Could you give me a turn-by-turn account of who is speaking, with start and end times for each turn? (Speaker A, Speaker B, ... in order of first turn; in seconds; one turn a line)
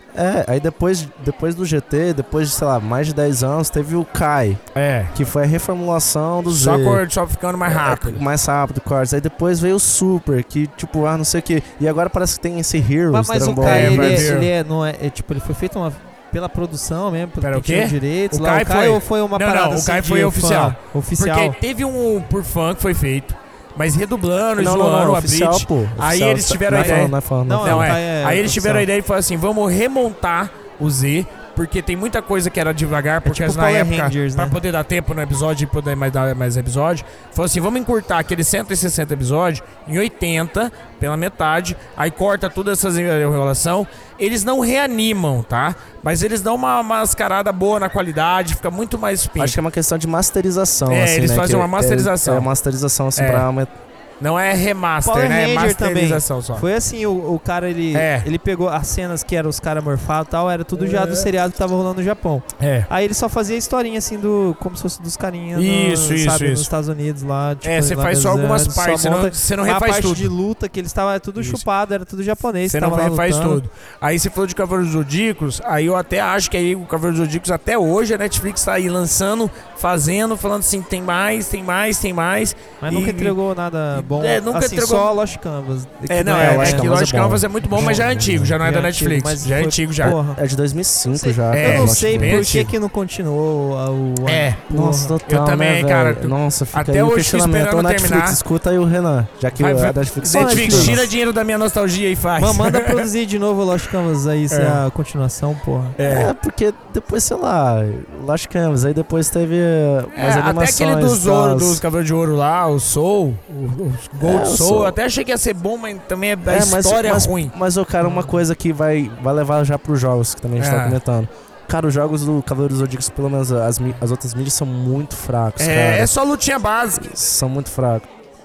Speaker A: 0.1-4.6
Speaker B: 4.7-5.1
Speaker A: 5.1-7.0
Speaker B: 6.5-8.2
Speaker A: 7.6-14.3
Speaker C: 13.1-21.6
Speaker B: 13.6-14.5
Speaker B: 17.4-49.6
Speaker A: 24.6-28.0
Speaker C: 26.7-28.9
Speaker C: 33.2-34.5
Speaker A: 49.4-53.7
Speaker B: 50.9-52.5
Speaker B: 53.1-53.5
Speaker B: 54.2-56.6
Speaker C: 55.0-73.6
Speaker B: 57.9-58.3
Speaker B: 60.8-61.3
Speaker B: 62.6-62.9
Speaker B: 65.5-66.7
Speaker B: 67.6-70.3
Speaker B: 71.4-71.6
Speaker B: 72.6-83.3
Speaker C: 82.8-86.9
Speaker B: 83.9-85.1
Speaker B: 86.1-90.2
Speaker A: 86.3-88.6
Speaker C: 87.7-88.1
Speaker C: 88.6-90.4
Speaker A: 90.2-92.5
Speaker C: 91.1-95.2
Speaker B: 91.5-92.7
Speaker B: 94.2-94.6
Speaker A: 94.7-101.1
Speaker B: 95.2-98.4
Speaker B: 99.5-103.1
Speaker C: 100.3-101.1
Speaker C: 102.4-106.0
Speaker B: 104.5-104.8
Speaker B: 106.0-106.3
Speaker A: 106.0-111.8
Speaker B: 110.2-117.5
Speaker A: 114.2-115.0
Speaker A: 116.4-126.1
Speaker B: 120.6-121.0
Speaker B: 125.6-127.1
Speaker A: 127.0-128.1